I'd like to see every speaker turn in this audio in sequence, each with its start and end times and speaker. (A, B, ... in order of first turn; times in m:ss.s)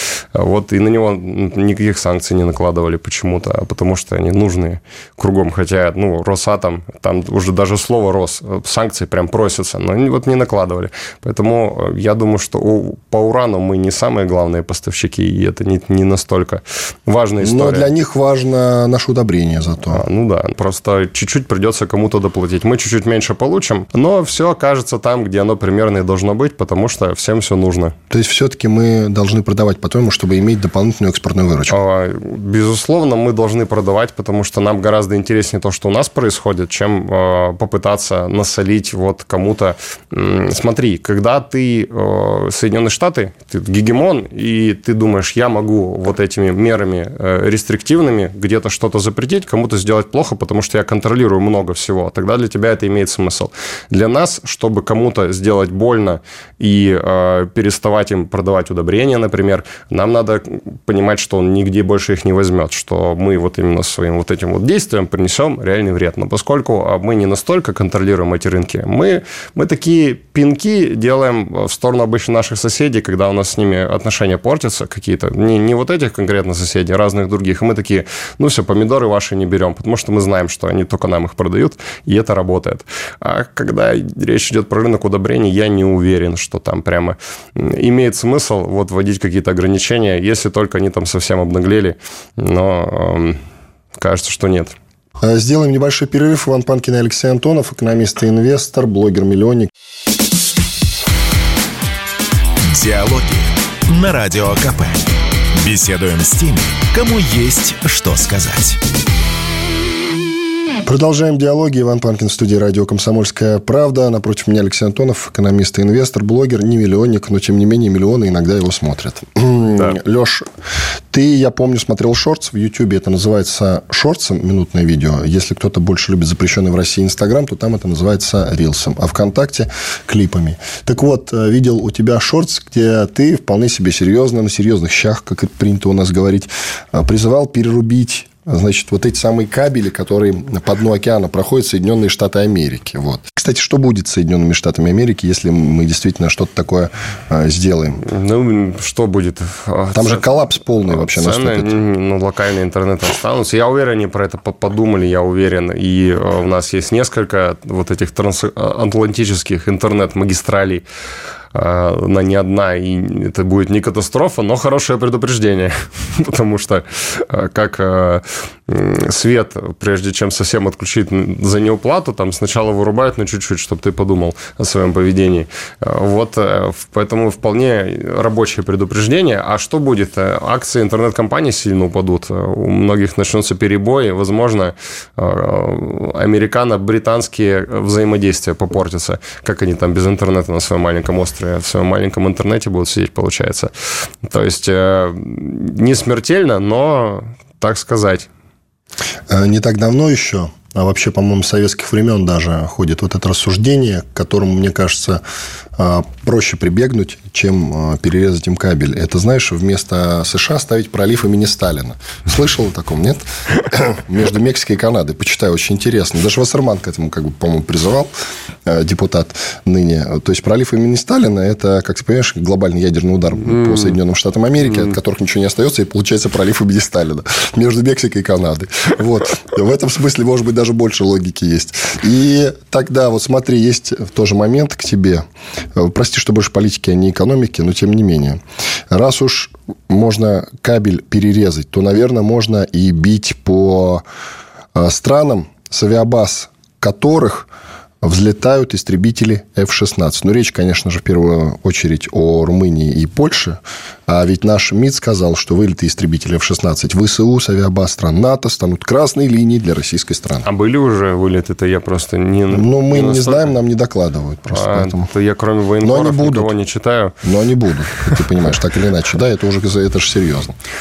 0:00.3-0:17.9 A
0:17.4-0:20.0 B
0:19.9-0:27.9 A
0:28.1-0:31.8 B
0:31.7-1:33.4 A
1:34.0-1:34.8 A
1:35.2-1:39.7 B
1:42.6-1:48.8 C
1:50.8-2:00.5 B
2:01.1-2:28.0 B
2:28.0-2:30.2 A
2:29.9-2:31.7 B
2:30.9-2:40.8 A
2:41.5-3:13.7 A
3:14.2-3:18.3 A
3:19.3-3:25.2 B
3:25.8-3:38.1 B
3:38.6-4:04.0 B
4:04.7-4:07.5 B
4:08.0-4:20.4 B
4:20.4-4:23.6 A
4:22.5-4:25.1 B
4:24.5-4:27.2 A
4:25.8-4:26.5 B
4:27.2-4:30.5 B